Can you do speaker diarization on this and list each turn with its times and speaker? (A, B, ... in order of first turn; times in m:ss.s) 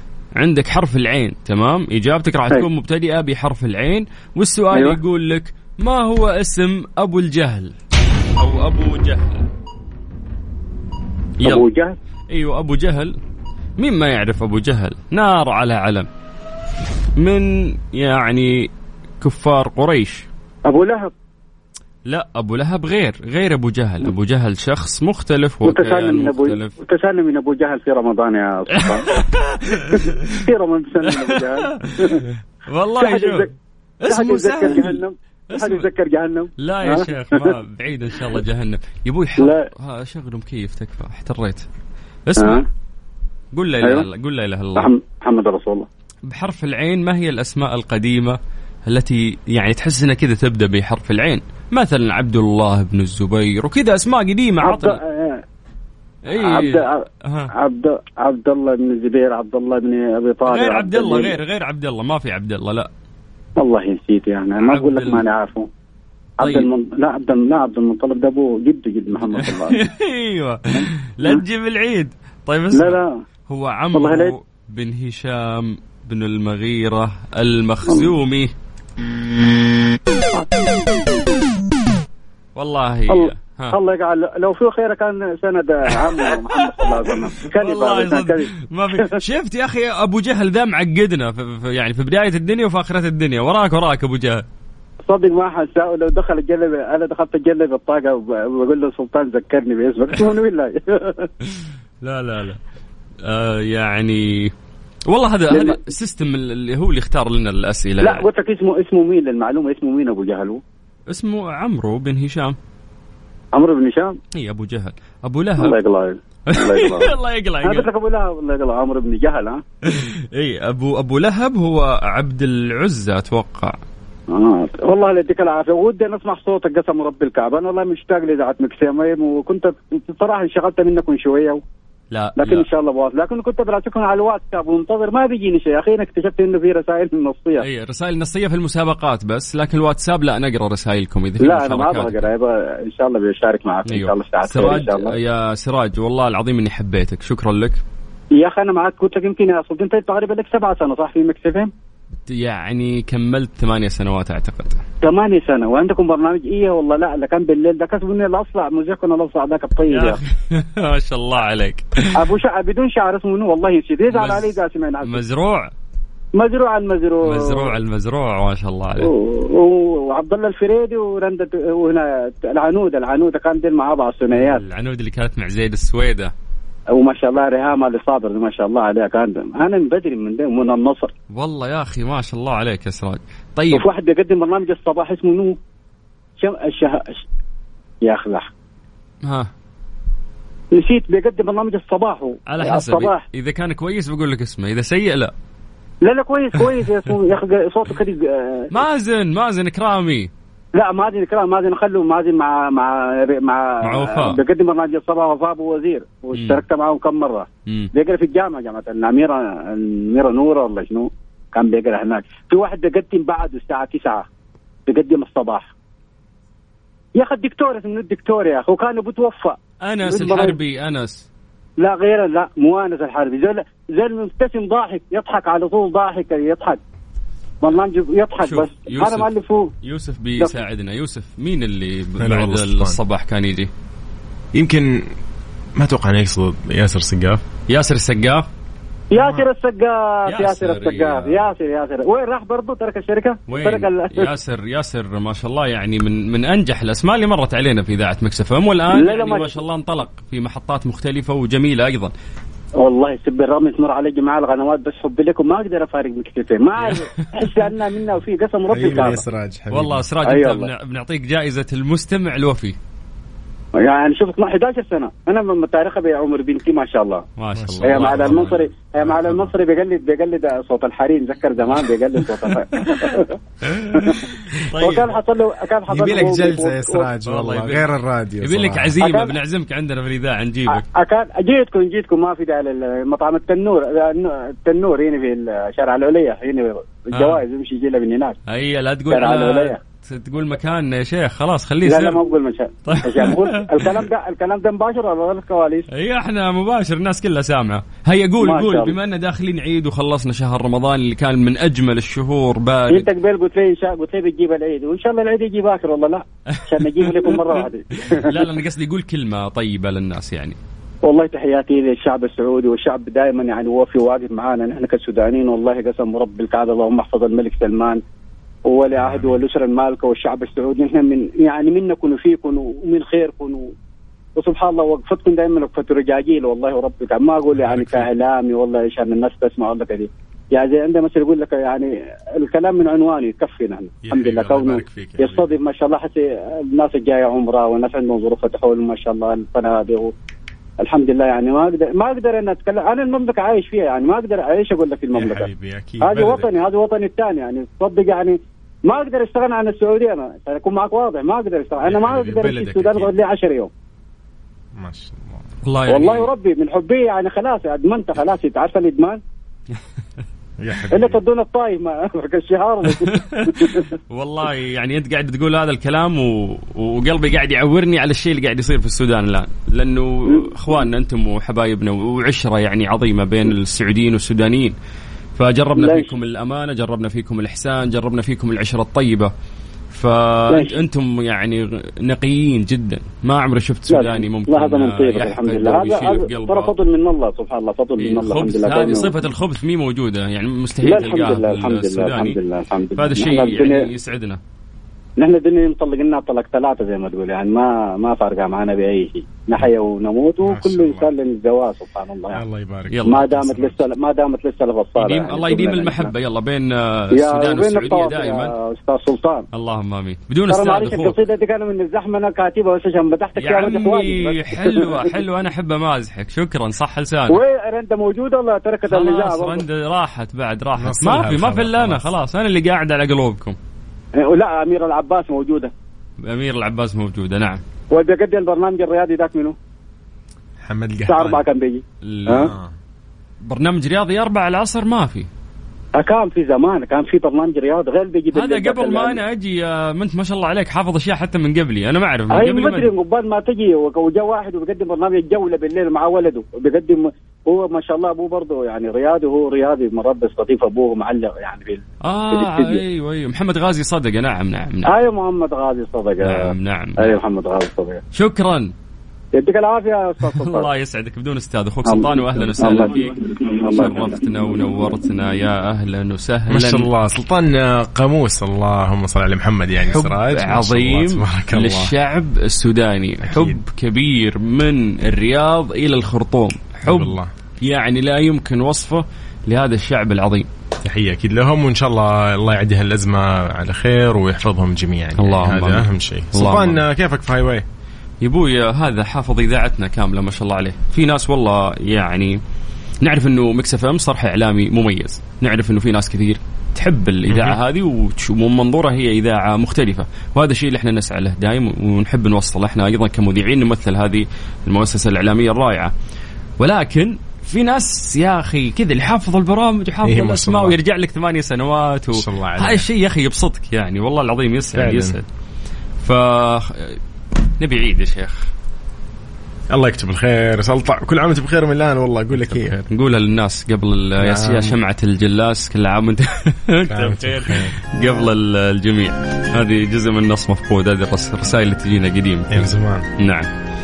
0:00.3-0:07.7 A
0:04.7-0:05.0 B
0:08.4-0:09.5 A
0:11.4-0:11.7 A
0:11.4-0:12.0 B
0:12.3-0:13.2 A
0:13.8-0:16.1 A
0:17.2-0:20.3 A
0:20.6-0:21.1 B
0:22.1-0:26.8 A
0:25.6-0:29.1 B
0:28.8-0:30.4 A
0:29.9-0:32.2 B
0:31.1-0:35.8 A
0:32.9-0:33.5 B
0:34.0-0:37.6 B
0:36.6-0:41.6 A
0:39.4-0:39.7 B
0:42.2-0:42.6 A
0:42.4-0:42.6 B
0:43.5-0:44.9 A
0:43.8-0:44.1 B
0:44.7-0:45.9 B
0:46.2-0:55.0 A
0:54.6-0:55.4 B
0:56.2-0:57.5 A
0:56.3-1:01.4 B
1:00.4-1:02.9 A
1:03.6-1:05.7 B
1:04.6-1:05.2 A
1:06.4-1:06.7 A
1:06.4-1:09.9 B
1:09.2-1:18.5 A
1:10.7-1:11.4 B
1:12.7-1:13.1 B
1:13.9-1:14.3 B
1:17.8-1:18.1 B
1:22.5-1:23.8 A
1:23.1-1:29.2 B
1:26.0-1:34.4 A
1:35.0-1:41.3 B
1:41.4-1:42.6 A
1:43.2-1:44.5 A
1:45.1-1:48.2 A
1:45.5-1:45.8 B
1:48.0-1:50.6 B
1:51.1-1:52.6 A
1:53.5-1:54.1 B
1:54.4-1:55.8 A
1:55.6-1:59.6 B
1:56.5-1:57.9 A
1:59.8-2:03.8 A
2:04.3-2:11.6 B
2:12.1-2:12.7 A
2:12.4-2:17.7 B
2:17.6-2:22.3 A
2:21.4-2:25.1 B
2:23.8-2:27.8 A
2:28.4-2:31.7 B
2:32.3-2:34.8 A
2:35.0-2:40.2 B
2:39.9-2:42.3 A
2:42.1-2:45.2 B
2:44.1-2:45.7 A
2:46.4-2:47.8 B
2:47.2-2:49.1 A
2:49.0-2:54.6 B
2:54.3-2:56.3 A
2:56.9-3:01.1 B
3:01.3-3:03.9 A
3:03.7-3:05.6 B
3:06.4-3:07.2 B
3:08.0-3:08.5 B
3:09.2-3:09.5 A
3:10.7-3:13.2 B
3:12.4-3:15.3 A
3:16.0-3:18.7 B
3:18.7-3:20.3 A
3:20.8-3:34.2 B
3:23.8-3:24.4 A
3:26.3-3:26.6 A
3:34.9-3:35.7 B
3:37.1-3:40.6 B
3:39.8-3:41.3 A
3:41.8-3:46.8 B
3:47.6-3:49.7 B
3:48.4-3:49.3 A
3:49.8-3:53.7 A
3:52.2-3:53.0 C
3:54.5-3:55.0 C
3:55.8-3:57.4 C
3:57.7-3:58.4 A
3:59.1-4:04.3 B
3:59.1-3:59.4 A
4:00.3-4:01.5 A
4:03.5-4:12.1 A
4:08.9-4:09.6 B
4:12.8-4:19.2 B
4:16.8-4:17.7 A
4:18.7-4:20.1 C
4:19.7-4:22.8 A
4:20.2-4:20.7 B
4:23.8-4:27.2 B
4:27.4-4:28.6 A
4:27.5-4:29.5 C
4:27.8-4:33.4 B
4:33.6-4:35.1 A
4:33.9-4:34.2 B
4:34.8-4:37.1 B
4:35.9-4:39.0 C
4:37.2-4:40.8 A
4:39.0-4:39.4 B
4:40.7-4:48.4 B
4:47.1-4:47.4 A
4:48.5-4:52.2 A
4:49.1-4:49.8 B
4:51.8-4:55.9 B
4:52.8-4:54.0 A
4:55.9-5:03.1 A
4:58.4-4:59.0 B
5:02.9-5:08.4 B
5:06.5-5:10.6 A
5:11.0-5:18.0 B
5:18.7-5:23.7 B
5:19.0-5:19.4 C
5:24.4-5:40.1 B
5:27.5-5:28.1 C
5:34.0-5:35.6 C
5:40.8-5:45.5 B
5:45.1-5:46.5 C
5:46.0-5:53.7 B
5:51.8-5:53.1 C
5:54.8-5:55.4 C
5:55.6-5:56.3 A
5:55.9-5:59.2 B
6:00.6-6:01.2 C
6:00.9-6:03.9 B
6:02.9-6:14.8 A
6:10.3-6:10.8 B
6:15.4-6:19.3 A
6:15.7-6:16.1 B
6:19.9-6:26.7 A
6:20.5-6:20.8 B
6:23.9-6:29.1 B
6:28.0-6:32.4 A
6:30.8-6:33.9 B
6:33.0-6:34.4 A
6:35.2-6:42.4 B
6:40.4-6:41.1 C
6:42.3-6:43.8 C
6:42.9-6:43.4 A
6:43.0-6:46.1 B
6:45.0-6:48.5 A
6:47.1-6:49.4 B
6:49.5-6:51.2 A
6:50.5-6:55.1 B
6:53.4-6:57.4 A
6:57.3-6:59.6 B
6:58.8-7:03.6 A
7:00.8-7:02.0 C
7:04.2-7:05.7 B
7:06.2-7:07.6 A
7:07.9-7:09.5 B
7:10.6-7:11.4 C
7:11.1-7:12.5 B
7:12.0-7:12.5 A
7:12.3-7:12.7 C
7:13.4-7:15.3 A
7:16.0-7:19.2 B
7:18.3-7:22.9 A
7:22.3-7:32.8 B
7:32.0-7:34.9 A
7:34.8-7:38.0 B
7:36.2-7:37.2 A
7:38.1-7:38.7 A
7:39.3-7:40.7 B
7:40.3-7:46.9 A
7:41.8-7:44.2 B
7:46.5-7:51.9 C
7:49.8-8:00.5 A
7:53.2-7:53.6 C
7:56.8-7:57.3 C
8:00.8-8:07.6 C
8:05.1-8:06.8 A
8:08.2-8:12.4 A
8:13.0-8:25.9 A
8:17.3-8:17.6 C
8:26.6-8:35.2 A
8:30.0-8:30.8 C
8:32.1-8:32.9 C
8:34.7-8:35.2 C
8:36.0-8:37.0 A
8:37.6-8:38.5 A
8:39.7-8:42.8 C
8:42.4-8:53.5 A
8:44.2-8:44.8 C
8:46.8-8:47.7 C
8:52.5-8:53.1 C